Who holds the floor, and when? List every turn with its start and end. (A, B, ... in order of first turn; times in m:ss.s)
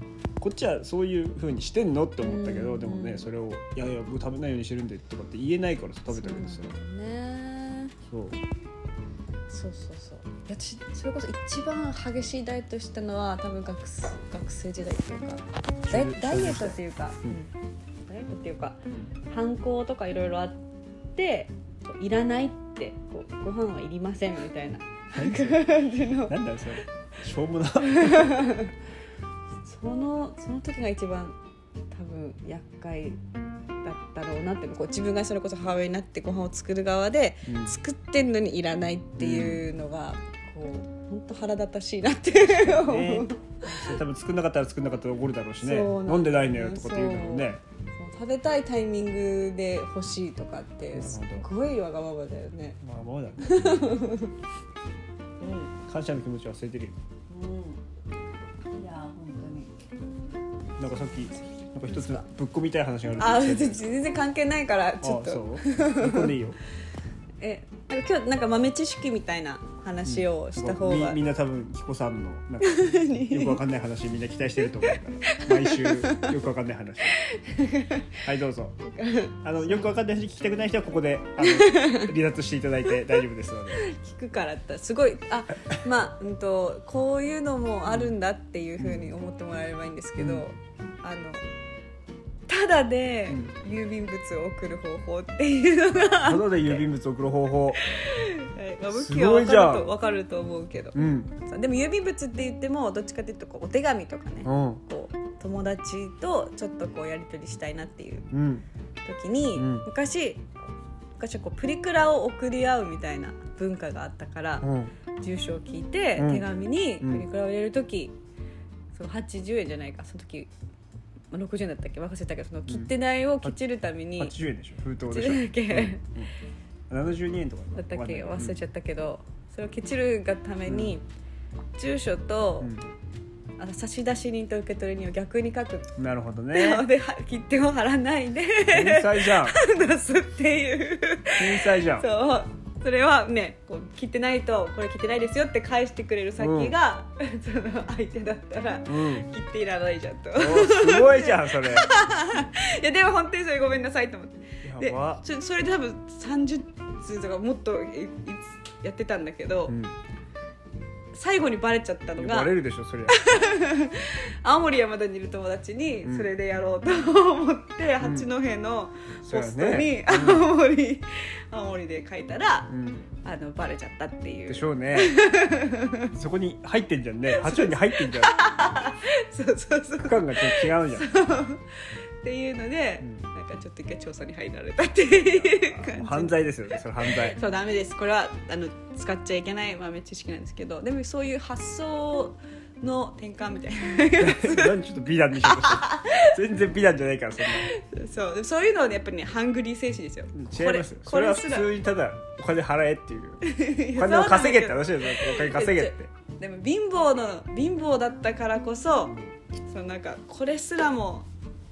0:00.4-0:06.7 A
0:02.2-0:03.3 B
0:06.1-0:07.9 B
0:08.1-0:08.4 A
0:09.5-0:17.5 B
0:15.8-0:17.4 A
0:18.1-0:20.6 B
0:21.1-0:26.4 B
0:25.1-0:28.4 A
0:27.8-0:28.7 B
0:29.6-0:31.4 B
0:31.9-0:33.2 B
0:33.8-0:44.0 B
0:37.5-0:37.8 A
0:39.2-0:39.6 A
0:42.4-0:47.6 A
0:45.6-0:52.8 B
0:50.9-0:51.5 A
0:52.8-0:54.1 A
0:53.4-0:54.3 B
0:55.4-0:55.7 B
0:55.9-0:56.9 A
0:57.3-0:57.8 B
0:58.7-0:59.7 B
1:00.8-1:04.1 A
1:00.9-1:02.2 B
1:03.2-1:06.3 B
1:05.0-1:06.6 A
1:07.4-1:11.2 B
1:10.0-1:17.2 A
1:12.6-1:13.6 B
1:15.3-1:16.3 B
1:17.1-1:18.2 B
1:18.2-1:18.7 A
1:18.8-1:19.9 B
1:19.4-1:23.9 A
1:21.4-1:22.1 B
1:23.7-1:31.4 B
1:27.8-1:28.1 A
1:28.8-1:29.1 A
1:30.2-1:30.4 A
1:32.5-1:36.9 B
1:36.2-1:37.8 A
1:37.7-1:48.3 B
1:38.9-1:39.9 A
1:40.9-1:41.3 A
1:44.4-1:44.8 A
1:48.3-1:48.6 A
1:49.0-1:50.4 B
1:49.5-1:49.9 A
1:51.2-1:54.7 B
1:54.6-1:54.9 A
1:55.2-1:58.1 B
1:56.2-1:56.5 A
1:57.0-1:57.2 A
1:58.9-2:00.5 B
2:01.3-2:04.4 B
2:04.2-2:06.3 A
2:05.0-2:06.0 B
2:06.9-2:08.6 A
2:07.7-2:11.0 B
2:10.6-2:11.0 A
2:11.8-2:12.7 B
2:12.6-2:12.9 A
2:13.6-2:15.9 B
2:16.0-2:16.8 A
2:16.5-2:39.7 B
2:18.7-2:19.6 A
2:21.4-2:22.1 A
2:26.4-2:26.8 A
2:28.8-2:29.3 A
2:30.3-2:31.9 A
2:34.6-2:35.2 A
2:39.7-2:39.9 A
2:41.1-2:52.7 B
2:42.2-2:43.5 A
2:46.0-2:46.3 A
2:48.0-2:48.3 A
2:49.2-2:50.5 A
2:52.7-2:53.1 A
2:53.2-2:56.1 B
2:54.5-2:55.2 A
2:56.1-2:58.5 A
2:57.3-3:06.4 B
3:00.0-3:01.1 A
3:05.1-3:07.4 A
3:07.0-3:14.8 B
3:14.1-3:17.7 A
3:15.3-3:16.3 B
3:17.4-3:21.7 B
3:20.3-3:26.1 A
3:23.4-3:31.3 B